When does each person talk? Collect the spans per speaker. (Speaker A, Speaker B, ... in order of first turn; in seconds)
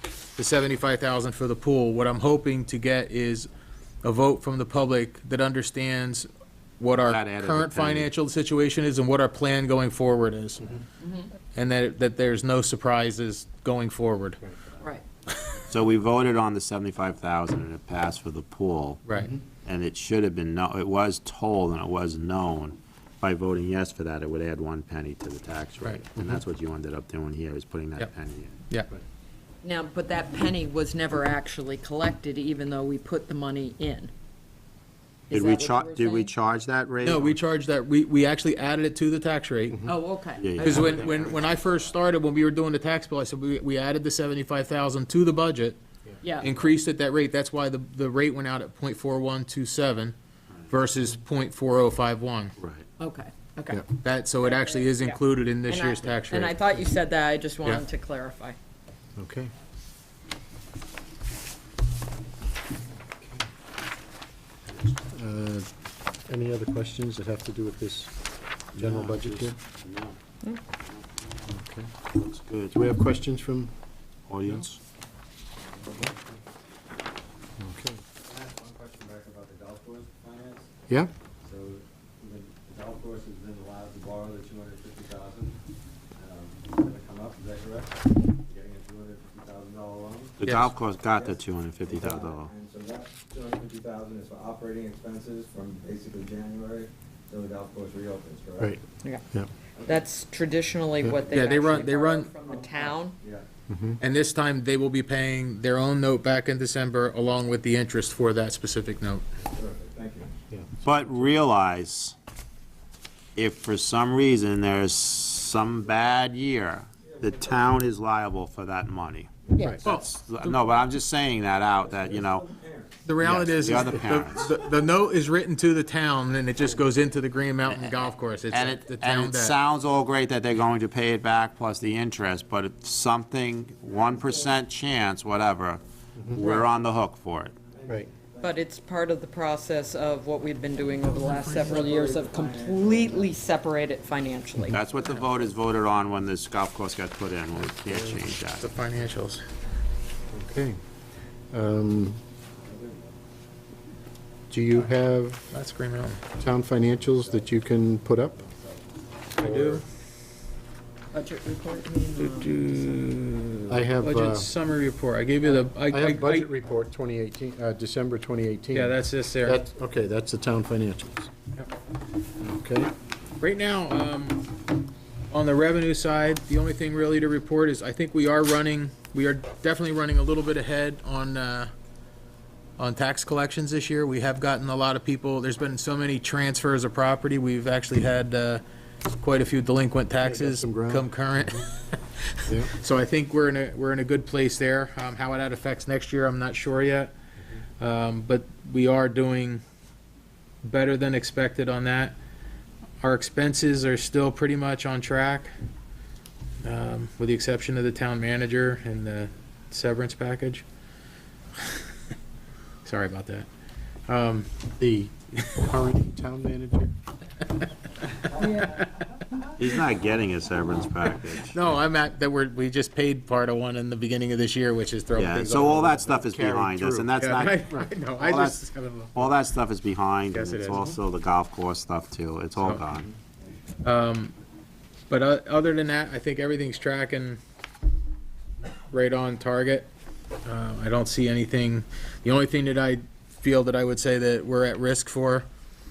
Speaker A: 0.4-3.5, 4.0-6.3, 6.8-10.8, 11.5-14.4, 19.1-19.4, 37.0-39.8, 40.6-45.8, 46.4-50.1, 50.7-52.6, 54.0-56.6, 90.4-90.7, 101.3-102.3, 104.0-109.2, 119.8-120.6, 123.0-129.6, 141.1-141.8, 148.6-149.4, 155.5-156.2, 159.4-159.8, 162.2-166.5, 168.7-169.6, 173.4-174.4, 175.3-181.7, 182.8-197.1, 197.8-199.6, 200.6-202.2, 203.0-205.5, 206.6-210.7, 212.8-213.5, 214.1-214.5, 218.6-219.0, 221.4-226.2, 227.2-229.3, 230.3-230.9, 233.8-234.3, 235.1-237.4, 238.9-239.9, 240.4-245.5
Speaker B: 7.0-8.1, 15.7-19.0, 19.6-28.6, 35.3-37.4, 40.4-41.6, 52.6-52.9, 68.8-70.2, 70.9-71.4, 72.2-72.7, 74.3-74.7, 90.4-92.5, 110.8-112.2, 113.4-122.5, 123.2-124.6, 127.7-137.6, 144.7-148.7, 219.6-221.5, 225.2-233.1
Speaker C: 11.0-11.3, 29.6-34.1, 35.3-36.3, 39.9-41.2, 46.2-46.5, 53.0-53.9, 54.4-58.6, 99.8-103.2, 136.4-136.7, 138.4-144.9, 161.1-162.8, 218.4-218.8
Speaker D: 59.2-59.5, 65.1-65.7, 66.3-68.2, 68.7-69.6, 71.5-71.9, 72.7-73.7, 77.6-78.0, 103.7-104.0, 150.3-150.8, 151.5-152.2, 154.5-155.4, 156.4-158.4, 159.4-159.8, 163.7-164.5, 165.5-171.3, 172.4-172.9, 190.2-191.1, 214.8-216.9, 226.2-227.1
Speaker E: 75.7-76.2, 78.2-80.8, 81.4-85.6, 86.2-90.5, 91.0-98.8, 99.8-100.1, 102.4-103.5, 109.5-110.3, 117.1-117.8, 121.8-123.0, 123.6-123.9, 133.9-134.6, 136.6-136.9, 137.6-138.6, 140.7-143.4, 152.6-153.2, 156.9-157.6, 158.4-159.1